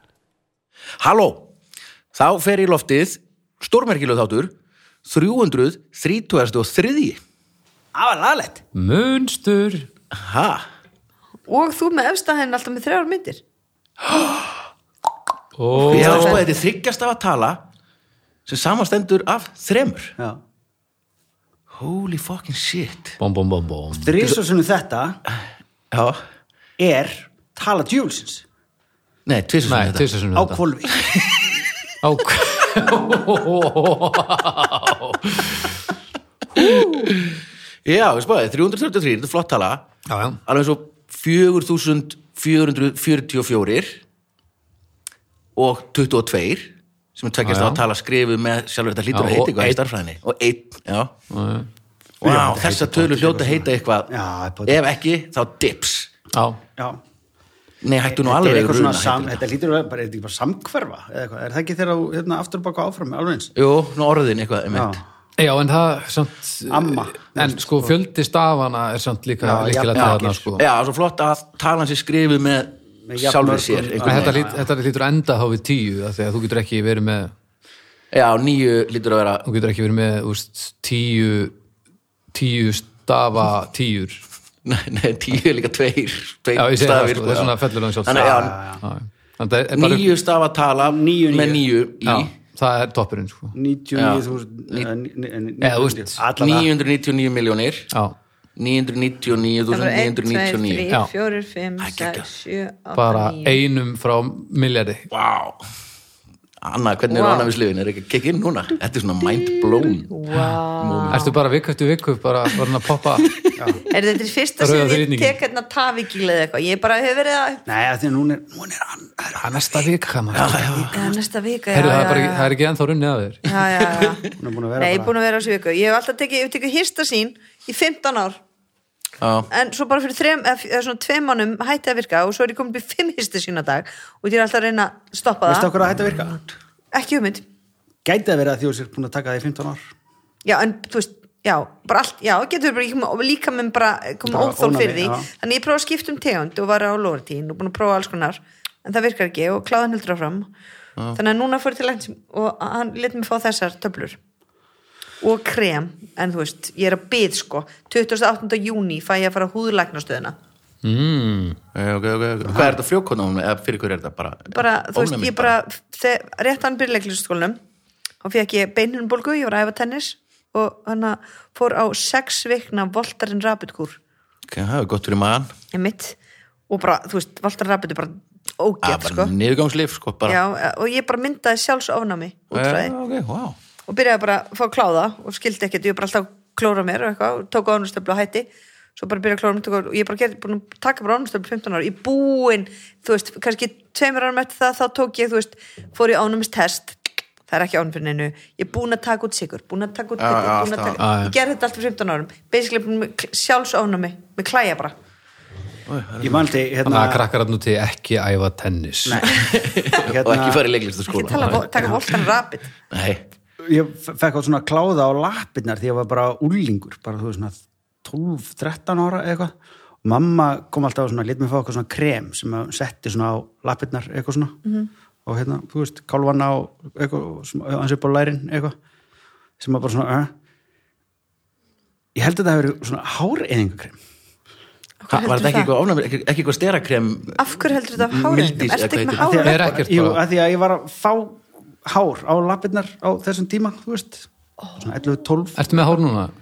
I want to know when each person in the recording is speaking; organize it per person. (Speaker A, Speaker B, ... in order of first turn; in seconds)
Speaker A: 1.0-1.5, 2.1-4.5, 5.0-7.2, 10.1-10.6, 15.8-17.6, 18.4-20.1, 21.7-23.2, 25.9-26.2, 29.2-30.1, 30.9-31.4, 36.6-39.8, 40.5-44.0, 45.5-51.1, 52.2-54.1, 54.6-56.1, 57.8-59.4, 63.5-65.0, 69.9-74.5, 78.1-79.5, 84.6-88.5, 89.7-92.3, 94.0-94.9, 96.4-97.9, 98.6-100.9, 101.8-102.3, 105.1-105.6, 106.6-110.1, 110.8-111.3, 113.2-113.5, 120.3-120.9, 129.2-129.5, 161.7-165.5, 174.5-175.5, 178.8-180.4, 182.5-183.6, 200.2-201.0, 205.9-206.6, 209.3-211.9, 212.9-213.2, 235.1-239.4
Speaker B: 7.9-8.6, 23.9-25.2, 26.8-28.4, 30.3-31.1, 52.2-54.8, 58.1-63.5, 64.7-65.0, 66.7-67.9, 69.4-70.5, 73.1-74.7, 88.1-88.8, 90.8-91.7, 93.5-96.7, 113.6-113.8, 117.7-121.0, 124.4-125.1, 135.4-136.4, 138.0-139.8, 144.2-145.3, 162.4-162.8, 206.2-207.2, 209.0-210.7, 211.7-212.0, 213.6-219.5, 220.0-224.6, 225.2-228.7, 229.6-230.3, 232.1-234.0, 239.2-244.3, 244.8-245.8
Speaker C: 8.7-9.9, 15.6-16.4, 23.2-24.2, 29.6-30.6, 32.0-35.8, 40.1-40.4, 47.4-47.8, 49.1-49.8, 51.3-51.7, 56.3-56.6, 65.4-70.6, 74.0-77.3, 79.4-81.5, 82.3-84.2, 86.5-90.1, 92.0-93.5, 95.6-96.2, 103.0-105.1, 111.1-113.3, 114.6-115.4, 119.3-120.9, 121.7-123.5, 160.8-161.6, 201.0-201.3, 206.8-209.3, 211.3-211.6, 239.4-240.2, 245.6-246.3
Speaker D: 11.5-13.4, 15.8-16.4, 99.7-103.6, 107.1-107.5, 110.0-111.3, 113.9-117.6, 120.9-122.5, 123.4-128.4, 129.5-135.7, 136.9-137.4, 140.4-150.5, 151.1-154.2, 155.2-160.3, 164.5-167.6, 168.2-174.0, 175.7-176.2, 176.7-179.3, 180.2-182.9, 183.9-204.9, 211.1-212.7, 235.0-235.7, 237.4-239.7